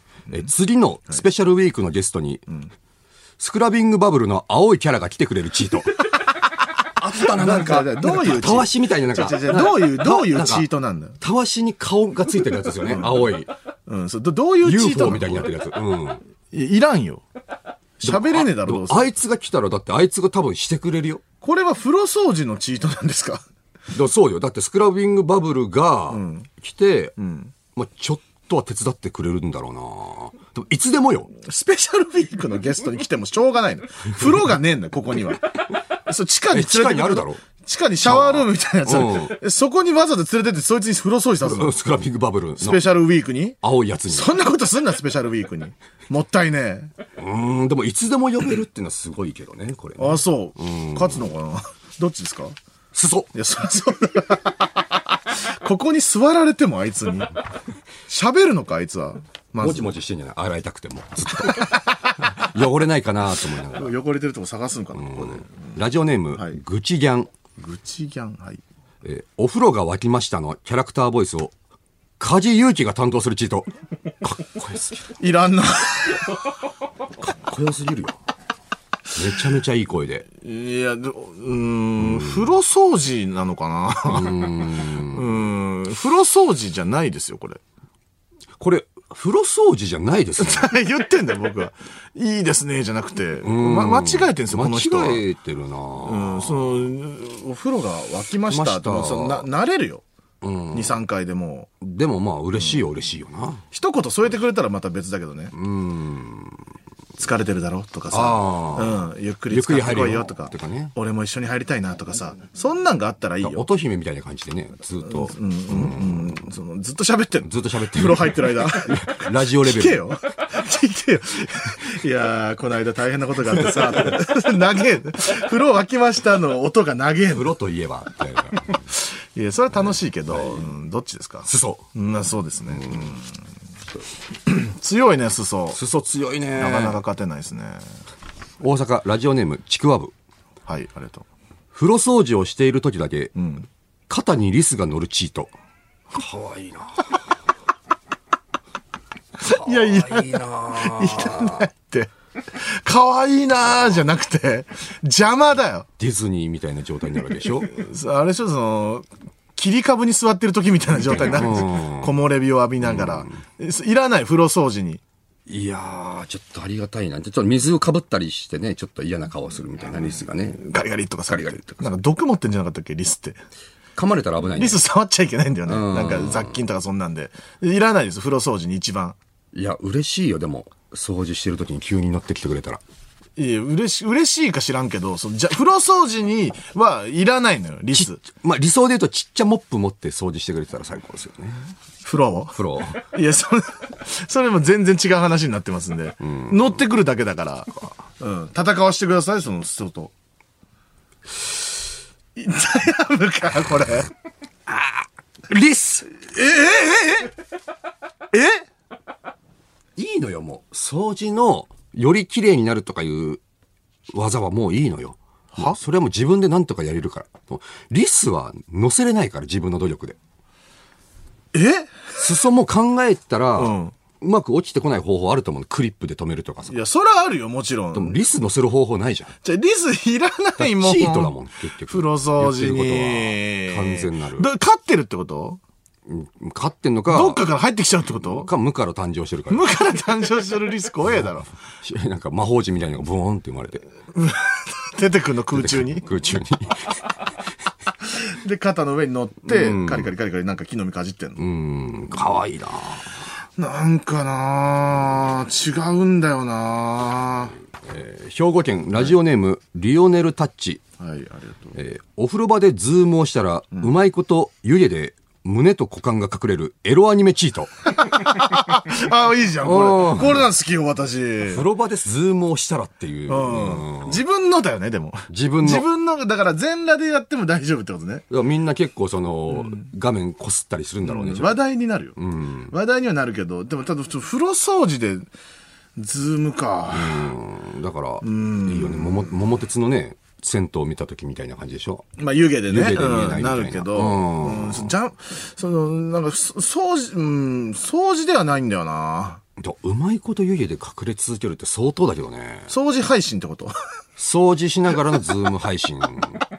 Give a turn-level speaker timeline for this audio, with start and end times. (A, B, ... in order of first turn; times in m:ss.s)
0:00.3-0:02.4 A
0:03.4-0:06.0 A
0:07.0-0:10.7 A
0:07.1-0:11.2 B
0:11.2-0:13.5 A
0:12.8-0:13.3 B
0:13.9-0:15.5 B
0:14.6-0:16.2 A
0:16.5-0:17.2 B
0:18.0-0:19.1 B
0:18.0-0:21.2 A
0:21.4-0:23.4 B
0:23.9-0:27.1 A
0:26.1-0:26.5 B
0:27.2-0:27.5 B
0:27.7-0:31.3 A
0:31.4-0:35.5 B
0:36.0-0:41.8 B
0:36.5-0:37.4 A
0:38.0-0:39.4 A
0:41.4-0:42.8 A
0:42.6-0:46.9 B
0:43.6-0:44.3 A
0:47.2-0:51.3 A
0:50.0-0:52.6 B
0:52.9-0:53.3 A
0:53.3-0:54.7 B
0:55.4-0:57.4 B
0:58.1-0:59.9 B
0:59.6-1:03.9 A
1:01.4-1:01.8 B
1:03.7-1:05.8 B
1:04.9-1:07.3 A
1:06.3-1:06.6 B
1:07.6-1:08.6 B
1:09.0-1:11.5 A
1:12.2-1:13.7 A
1:14.2-1:15.1 A
1:15.2-1:16.3 B
1:17.2-1:18.2 A
1:19.1-1:20.2 A
1:20.4-1:27.6 B
1:22.0-1:22.5 A
1:24.1-1:25.4 A
1:28.6-1:30.7 A
1:30.4-1:35.2 B
1:33.4-1:36.8 A
1:36.0-1:40.0 B
1:38.5-1:39.5 A
1:40.4-1:41.0 A
1:40.7-1:41.7 B
1:41.8-1:43.6 A
1:43.7-1:45.5 B
1:45.5-1:46.6 A
1:47.2-1:53.7 B
1:48.1-1:50.9 A
1:53.4-1:56.3 A
1:55.0-2:07.5 B
1:57.4-2:00.1 A
2:03.6-2:04.2 A
2:07.3-2:08.8 A
2:08.9-2:13.3 B
2:10.3-2:10.7 A
2:11.4-2:11.8 A
2:12.8-2:13.1 A
2:14.4-2:15.8 B
2:15.7-2:17.0 A
2:16.6-2:17.8 B
2:18.6-2:20.1 A
2:20.7-2:21.2 B
2:21.7-2:23.3 A
2:23.4-2:23.7 B
2:24.1-2:25.5 A
2:26.1-2:27.2 A
2:29.4-2:35.9 B
2:29.4-2:31.6 A
2:36.0-2:37.7 A
2:37.6-2:45.0 B
2:41.0-2:42.1 A
2:42.8-2:43.4 A
2:45.5-2:50.6 A
2:50.6-2:53.4 B
2:51.3-2:51.9 A
2:53.9-2:54.8 A
2:54.6-2:59.2 B
2:55.6-2:56.6 A
2:59.5-3:02.8 A
3:03.4-3:08.2 B
3:07.9-3:11.6 A
3:12.0-3:20.1 B
3:12.5-3:13.0 A
3:16.2-3:16.7 A
3:22.4-3:24.1 B
3:24.7-3:26.1 A
3:26.1-3:27.3 B
3:28.3-3:28.7 B
3:30.0-3:33.4 A
3:34.1-3:40.2 A
3:41.5-3:42.0 B
3:42.2-3:46.8 A
3:43.6-3:43.9 B
3:46.7-3:48.2 B
3:47.9-3:49.3 A
3:49.4-3:51.3 B
3:50.6-3:54.5 A
3:51.9-3:55.6 B
3:56.1-3:57.4 A
3:57.1-3:58.5 B
3:58.2-3:59.6 A
3:59.5-4:01.5 B
4:01.8-4:03.8 A
4:04.1-4:06.0 B
4:05.5-4:07.1 A
4:08.2-4:11.4 B
4:09.4-4:10.1 A
4:11.4-4:13.1 A
4:13.6-4:17.5 B
4:17.8-4:20.8 A
4:21.0-4:21.8 B
4:21.7-4:27.7 A
4:27.9-4:31.6 B
4:29.6-4:30.4 A
4:31.4-4:34.2 A
4:33.3-4:38.2 B
4:35.3-4:35.8 A
4:38.3-4:41.6 A
4:39.6-4:39.8 B
4:41.0-4:42.2 B
4:42.2-4:42.7 A
4:42.7-4:45.3 B
4:46.0-4:47.3 B
4:46.9-4:52.0 A
4:48.2-4:49.3 B
4:52.2-4:59.4 B
4:52.7-4:54.9 A
4:59.6-5:02.7 A
5:02.7-5:03.7 B
5:04.2-5:06.4 A